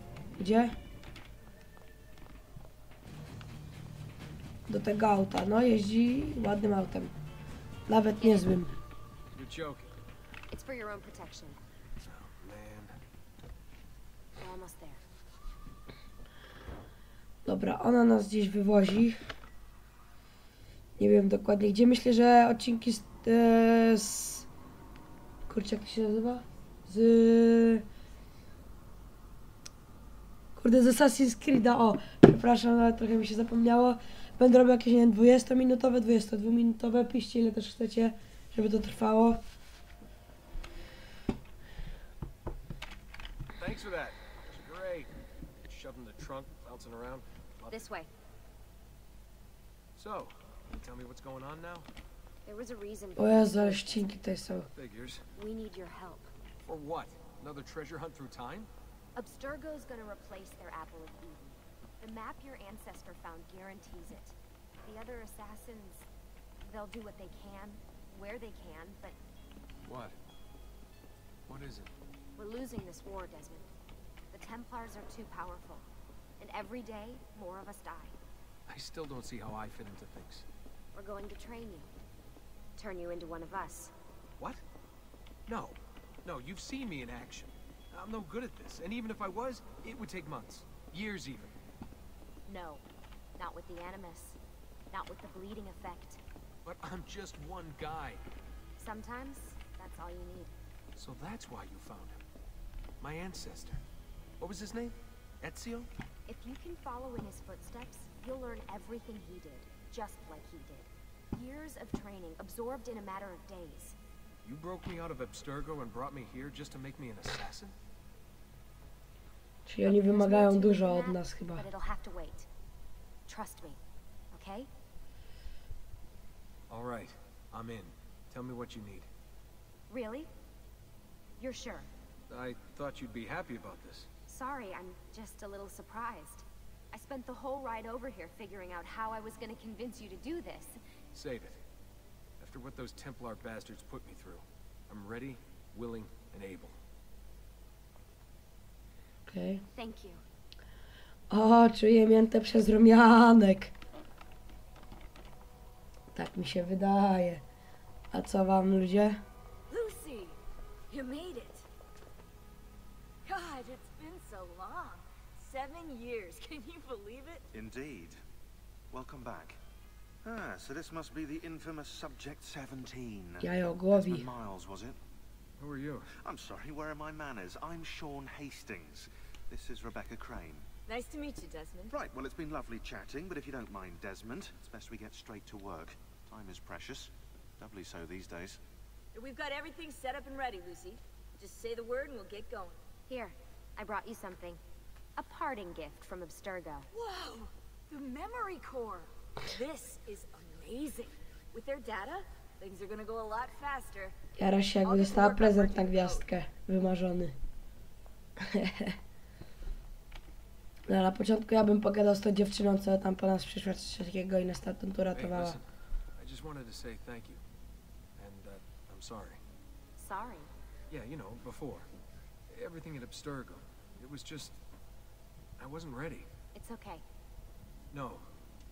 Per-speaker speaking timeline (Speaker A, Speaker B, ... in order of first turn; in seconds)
Speaker A: 0.4-0.8, 4.7-7.1, 7.9-8.7, 17.4-19.2, 21.0-24.5, 25.4-27.8, 30.6-39.4, 53.2-54.7, 119.7-121.6, 149.3-149.6, 151.3-153.7, 156.1-157.4, 158.1-159.2, 173.4-174.3, 204.4-207.3, 208.4-208.9, 210.9-215.6
Speaker B: 9.3-9.9, 12.0-12.9, 43.6-45.1, 45.6-47.9, 50.0-51.9, 54.8-55.2, 56.6-58.7, 69.9-70.2, 71.5-71.9, 78.7-80.4, 85.5-91.5, 96.6-98.2, 101.0-102.2, 103.0-103.8, 104.4-105.9, 114.4-117.7, 126.7-129.1, 132.3-134.1, 141.1-141.6, 142.4-146.8, 175.6-176.1, 215.1-215.7, 216.2-217.4, 218.2-219.4, 220.9-221.9, 222.5-224.6, 225.6-226.3, 227.9-228.2
Speaker C: 10.5-11.6, 14.4-15.0, 47.7-48.1, 52.4-54.2, 55.4-56.3, 59.1-66.1, 66.6-69.2, 72.4-73.7, 74.3-75.9, 76.4-78.2, 80.9-81.9, 82.8-83.9, 92.5-92.8, 93.4-94.4, 94.9-96.2, 98.8-100.5, 106.3-114.0, 119.8-122.5, 123.3-123.8, 124.3-124.7, 129.9-130.3, 131.4-131.9, 134.3-140.8, 149.7-150.2, 193.1-194.6, 195.2-196.9, 220.0-220.5, 226.5-227.0
Speaker D: 159.7-160.4, 160.9-161.7, 163.2-167.5, 180.9-181.9, 189.1-192.8, 196.9-204.1, 204.8-206.3
Speaker E: 167.5-168.2, 168.9-169.6, 170.2-175.0, 176.2-180.7, 181.9-188.6